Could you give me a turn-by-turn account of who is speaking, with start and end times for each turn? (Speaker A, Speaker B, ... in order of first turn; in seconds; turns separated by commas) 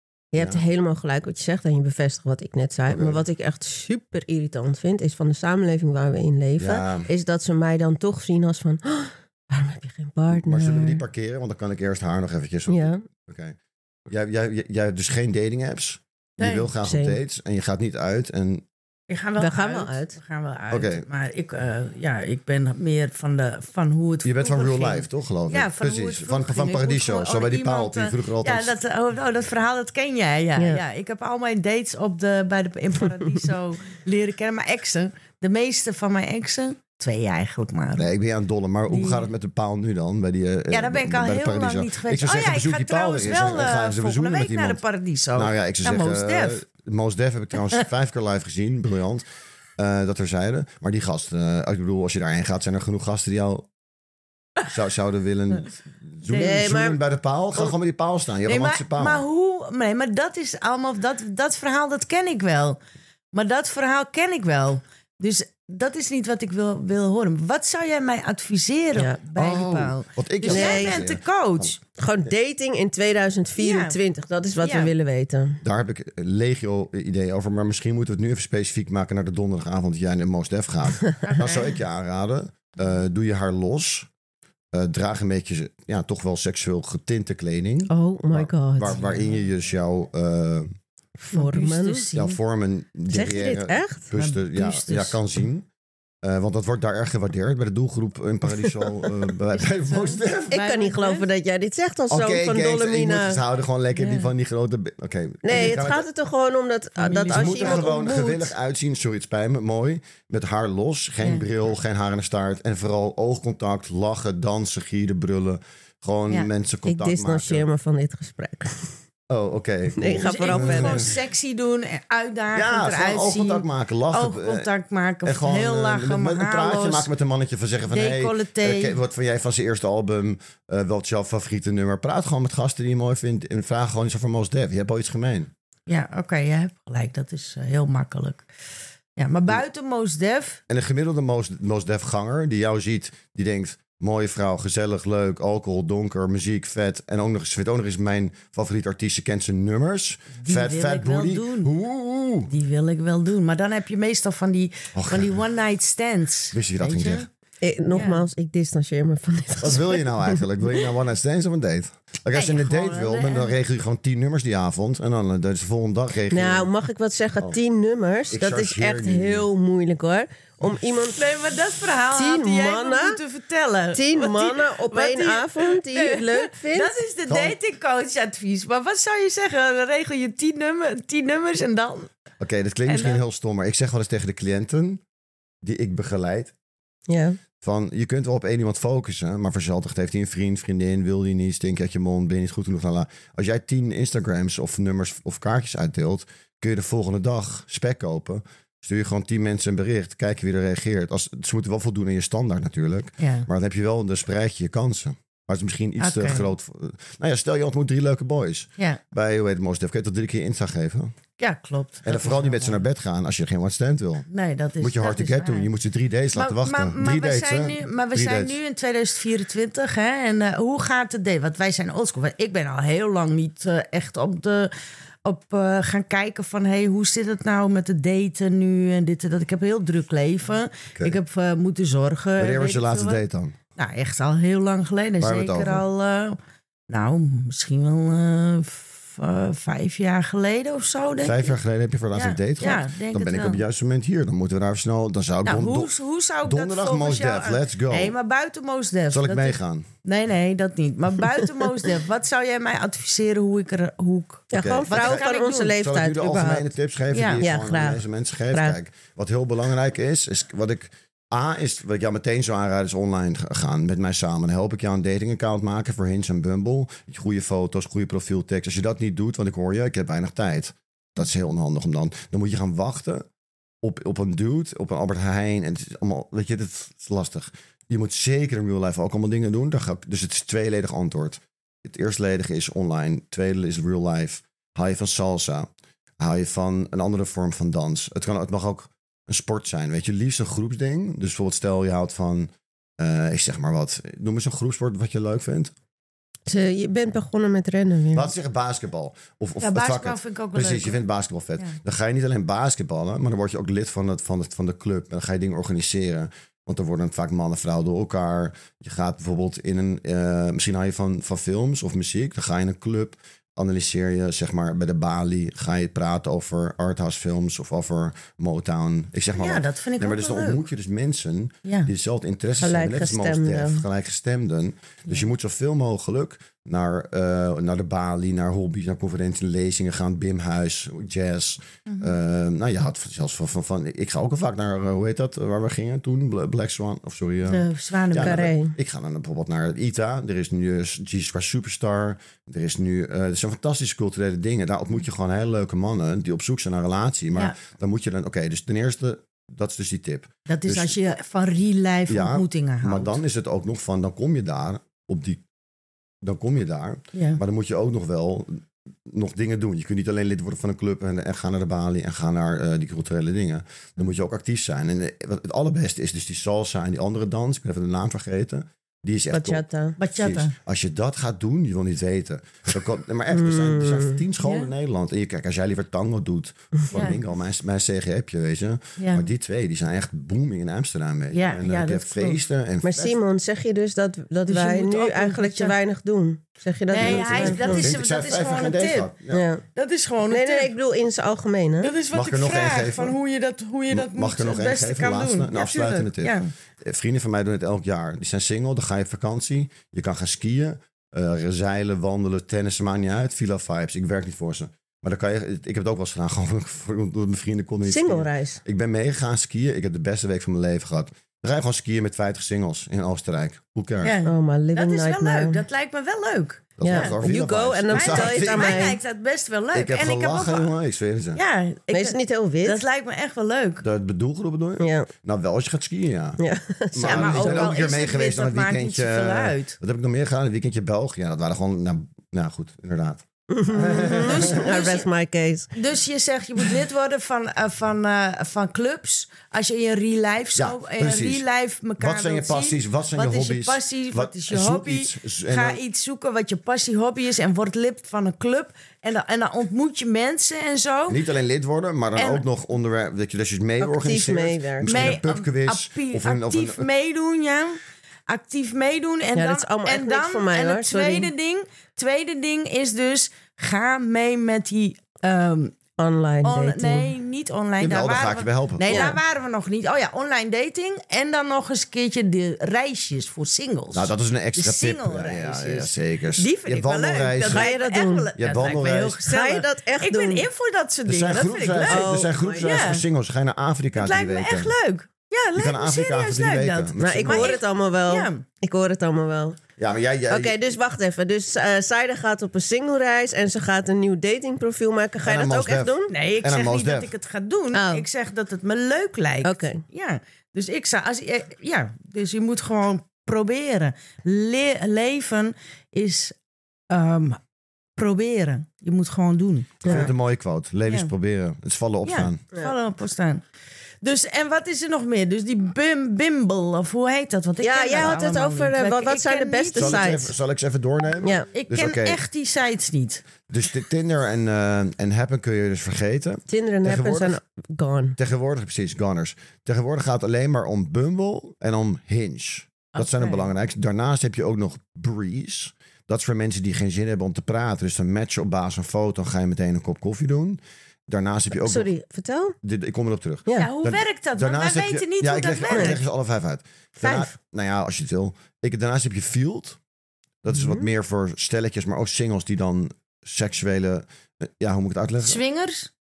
Speaker A: 0.3-11.0, Speaker B: 0.4-0.6, Speaker B: 2.9-3.2, Speaker B: 6.6-7.1, Speaker B: 10.3-18.7, Speaker A: 12.7-13.0, Speaker C: 16.4-16.7, Speaker A: 16.8-17.2, Speaker C: 19.1-38.1, Speaker A: 19.4-20.2, Speaker B: 20.7-21.1, Speaker B: 24.2-28.7, Speaker B: 38.0-44.8, Speaker C: 38.9-39.3, Speaker C: 40.7-46.6, Speaker B: 45.4-49.2, Speaker B: 49.8-53.7, Speaker B: 54.7-59.2, Speaker C: 56.3-56.6, Speaker A: 56.4-57.0, Speaker C: 58.5-62.8, Speaker C: 63.3-71.8, Speaker A: 69.0-69.2, Speaker B: 69.3-71.7, Speaker A: 70.5-71.0, Speaker A: 72.0-75.6, Speaker C: 73.6-74.0, Speaker C: 74.6-74.9, Speaker B: 75.6-84.1, Speaker C: 81.2-81.8, Speaker B: 84.7-90.7, Speaker A: 87.9-89.0, Speaker C: 89.0-89.3, Speaker A: 91.2-92.1, Speaker C: 91.3-92.4, Speaker B: 92.2-95.7, Speaker A: 93.1-94.1, Speaker C: 94.1-95.1, Speaker A: 94.7-95.1, Speaker B: 96.2-100.5, Speaker A: 98.6-99.1, Speaker C: 99.8-101.3, Speaker A: 100.5-103.4, Speaker B: 102.1-106.1, Speaker C: 104.0-104.3, Speaker A: 105.4-108.0, Speaker C: 107.0-108.5, Speaker B: 107.3-117.7, Speaker A: 116.9-118.9, Speaker B: 119.3-121.1, Speaker A: 120.0-121.1, Speaker C: 120.2-127.1, Speaker B: 122.5-124.7, Speaker B: 125.2-135.5, Speaker C: 127.9-129.0, Speaker C: 135.9-138.5, Speaker C: 139.2-140.6, Speaker B: 140.7-152.5, Speaker C: 150.4-151.7, Speaker C: 152.5-157.3, Speaker B: 154.9-155.3, Speaker B: 156.5-157.3, Speaker A: 157.6-160.4, Speaker C: 157.9-158.2, Speaker B: 159.6-166.7, Speaker C: 162.3-163.5, Speaker A: 166.3-171.2, Speaker B: 168.3-169.5, Speaker C: 171.1-182.1, Speaker A: 172.1-173.2, Speaker A: 173.9-176.9, Speaker B: 177.3-177.6, Speaker B: 182.4-185.0, Speaker C: 182.9-183.2, Speaker B: 185.6-186.5, Speaker A: 187.1-187.4, Speaker B: 187.6-211.1, Speaker C: 203.2-203.5, Speaker C: 206.0-206.5, Speaker C: 211.4-212.8, Speaker B: 212.1-214.3, Speaker C: 214.3-215.7, Speaker B: 214.8-218.6, Speaker C: 216.3-224.7, Speaker C: 225.2-233.2, Speaker B: 232.4-233.6, Speaker C: 233.8-236.4, Speaker B: 235.2-235.8, Speaker C: 236.9-241.6, Speaker B: 241.2-245.9, Speaker C: 242.1-243.6, Speaker C: 245.4-255.8, Speaker B: 246.4-248.1, Speaker B: 249.1-249.9, Speaker A: 254.5-256.7, Speaker B: 254.6-273.3, Speaker C: 257.1-257.5, Speaker A: 257.4-258.8, Speaker B: 273.8-285.7, Speaker B: 286.2-295.7, Speaker A: 296.5-298.3, Speaker B: 298.1-350.9, Speaker C: 299.6-301.0, Speaker C: 319.4-320.6, Speaker C: 321.6-321.9, Speaker A: 322.6-323.9, Speaker C: 331.9-332.2, Speaker C: 337.5-338.5, Speaker A: 338.2-338.7, Speaker C: 350.5-353.2, Speaker B: 352.1-355.4, Speaker B: 356.2-383.2, Speaker C: 357.1-357.4, Speaker A: 369.4-369.9, Speaker C: 370.0-370.5, Speaker A: 373.3-374.3, Speaker C: 376.9-377.2, Speaker C: 379.0-379.3, Speaker C: 381.3-382.4, Speaker A: 382.8-387.9, Speaker C: 384.5-385.8, Speaker C: 386.9-389.1, Speaker B: 387.0-389.4, Speaker A: 389.3-389.6, Speaker C: 389.8-390.7, Speaker A: 390.3-391.9, Speaker C: 391.8-396.5, Speaker B: 392.1-393.2, Speaker B: 393.9-414.1, Speaker A: 407.9-408.6, Speaker C: 414.0-417.2, Speaker A: 414.2-415.6, Speaker B: 416.8-418.9, Speaker A: 416.8-419.0, Speaker C: 417.9-420.7, Speaker B: 419.7-421.4, Speaker C: 421.4-423.8, Speaker A: 421.9-422.8, Speaker B: 423.8-426.4, Speaker A: 424.8-425.1, Speaker A: 426.4-427.7, Speaker B: 426.9-434.8, Speaker C: 427.1-429.8, Speaker A: 433.5-435.7, Speaker C: 434.0-435.1, Speaker C: 435.8-451.2, Speaker B: 440.6-441.4, Speaker B: 442.0-445.8, Speaker B: 451.1-456.9, Speaker C: 452.2-452.4, Speaker A: 453.8-455.1, Speaker C: 454.9-465.8, Speaker A: 459.4-461.3, Speaker A: 466.0-467.1, Speaker C: 466.4-483.0, Speaker B: 467.8-469.2, Speaker A: 468.9-469.2, Speaker B: 473.9-477.7, Speaker A: 477.5-478.3, Speaker B: 478.4-479.2, Speaker A: 479.2-480.5, Speaker B: 481.1-484.7, Speaker A: 481.9-482.8, Speaker C: 483.9-488.4, Speaker B: 485.6-487.6, Speaker A: 487.0-489.6, Speaker B: 489.8-490.7, Speaker A: 490.3-496.1, Speaker B: 495.2-497.1, Speaker C: 496.1-506.4, Speaker A: 497.7-498.1, Speaker A: 499.4-499.8, Speaker C: 506.9-507.4, Speaker C: 508.0-510.1, Speaker B: 509.8-512.4, Speaker A: 509.9-510.1, Speaker C: 512.0-513.4, Speaker C: 514.0-520.2, Speaker A: 517.6-520.3, Speaker B: 519.8-522.2, Speaker C: 521.5-523.2, Speaker B: 523.5-527.4, Speaker A: 526.5-528.2, Speaker B: 528.2-541.9, Speaker C: 533.0-533.5, Speaker A: 541.5-542.5, Speaker B: 542.6-549.8, Speaker C: 543.6-546.0, Speaker A: 545.7-546.0, Speaker C: 547.0-547.3, Speaker B: 550.4-555.4, Speaker A: 550.5-550.9, Speaker C: 555.2-555.9